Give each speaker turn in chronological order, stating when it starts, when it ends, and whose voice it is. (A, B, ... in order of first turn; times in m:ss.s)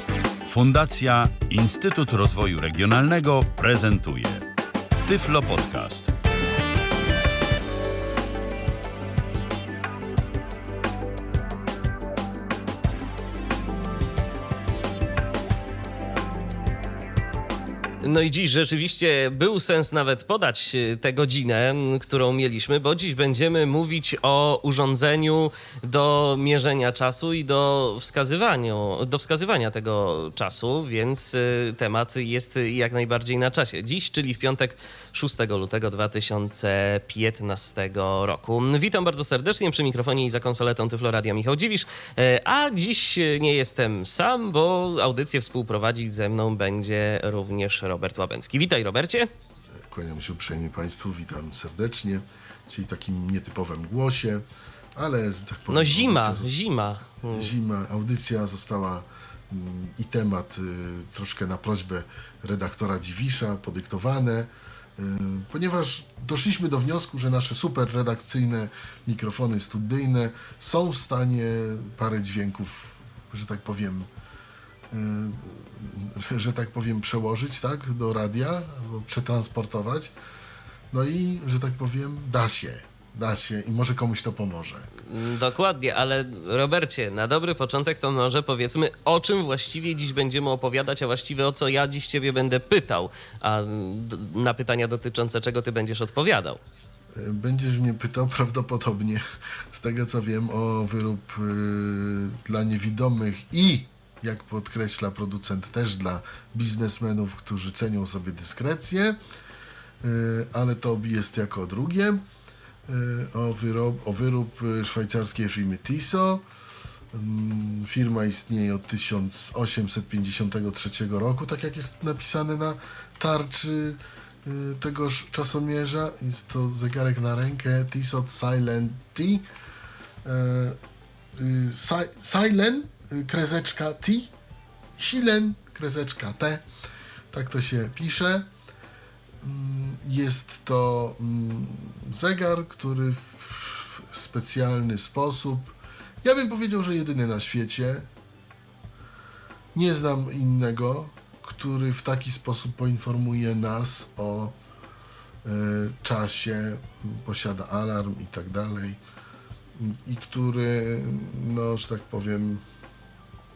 0:00.4-0:04.5 A
0:05.0-0:06.1 A
0:18.0-0:49.3 B
0:49.9-0:56.6 C
0:55.7-0:57.5 B
0:57.2-1:14.1 C
1:14.9-1:20.1 C
1:20.9-1:24.9 C
1:25.0-1:36.6 B
1:37.1-1:49.2 C
1:50.0-1:52.2 C
1:52.9-1:56.4 C
1:57.1-2:09.4 C
2:10.2-2:10.8 C
2:11.4-2:14.3 C
2:15.0-2:16.6 C
2:17.3-2:18.5 C
2:19.4-2:28.1 C
2:29.7-2:34.6 C
2:35.4-2:39.0 C
2:39.8-2:42.6 C